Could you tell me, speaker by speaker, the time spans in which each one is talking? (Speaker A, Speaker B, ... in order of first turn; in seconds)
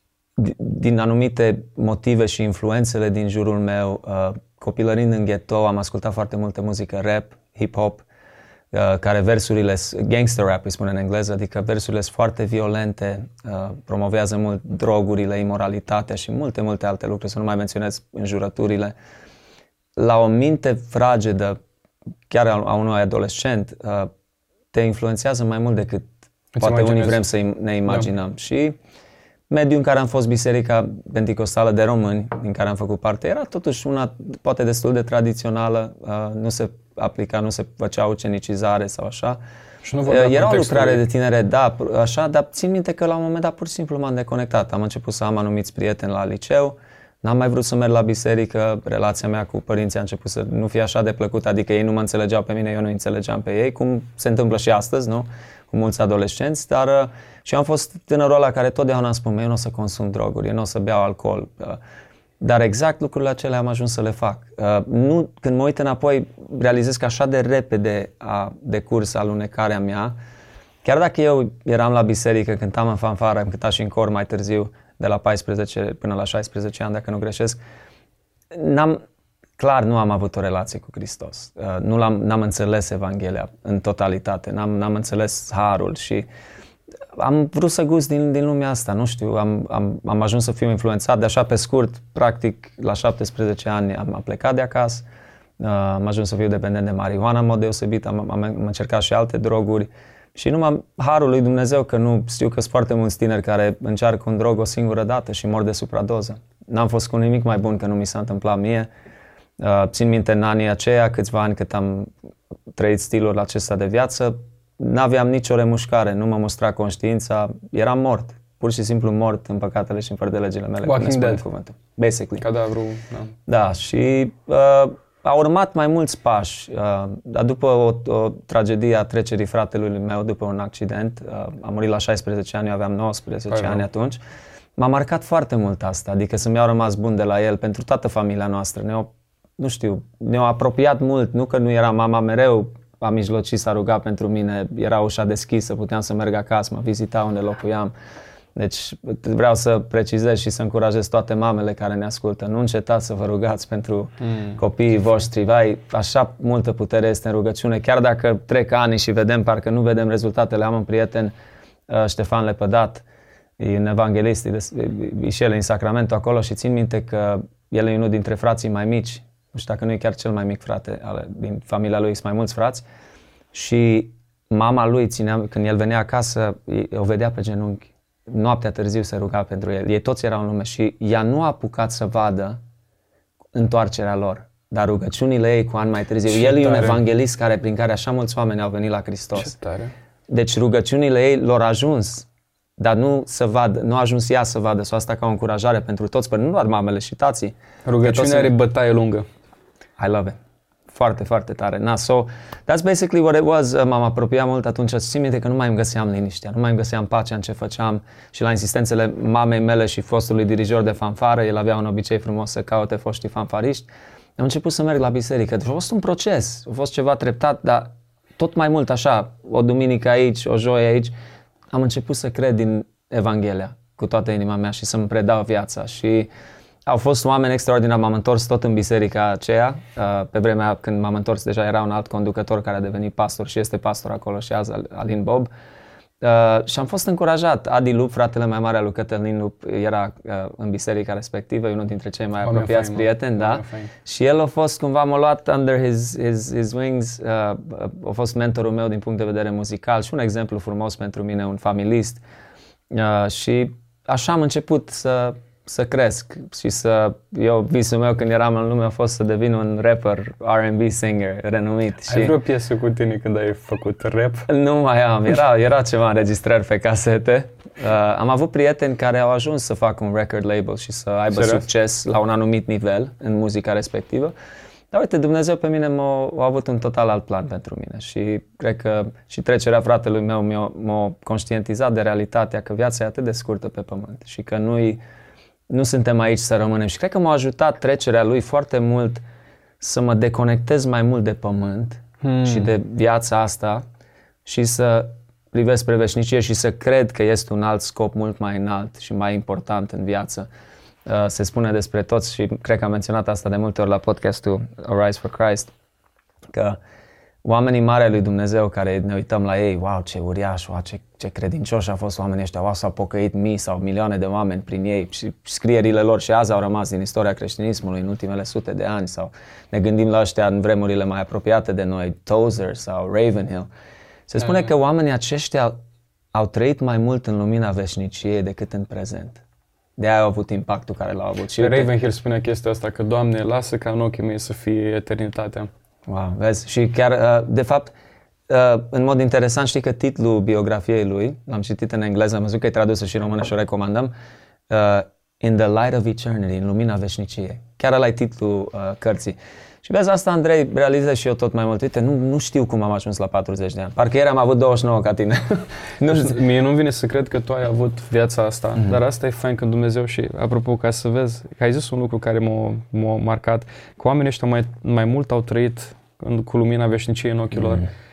Speaker A: 0.4-8.1, 8.7-18.9, 20.0-21.6, 22.3-24.1, 24.7-28.8, 29.5-39.4, 40.1-61.8, 62.4-70.2, 70.8-77.6, 78.5-79.0, 79.6-86.3, 87.2-95.0, 95.6-108.9, 109.6-112.1, 112.8-122.4, 123.5-134.2, 134.8-147.9, 148.6-161.3, 161.9-163.1, 163.6-172.8, 173.5-182.6, 183.5-189.5, 190.3-192.3, 192.8-198.5, 200.0-200.4, 200.9-221.1, 221.7-226.3, 226.9-235.5, 236.2-252.2, 252.9-262.4, 264.5-274.3, 274.9-285.0, 285.7-289.2, 289.8-293.8, 294.4-300.5, 301.1-305.7, 306.5-306.8, 307.4-323.7, 324.3-325.8, 326.3-329.4, 330.0-331.9, 336.1-337.9, 338.5-344.1, 344.7-356.4, 367.6-367.8
Speaker B: 26.6-27.3, 39.8-41.0, 120.8-121.4, 122.4-123.3, 133.5-133.8, 154.2-154.6, 186.3-187.0, 189.4-189.9, 197.9-199.2, 242.4-243.9, 262.1-264.5, 271.3-271.6, 292.2-292.7, 331.6-335.7, 356.1-367.9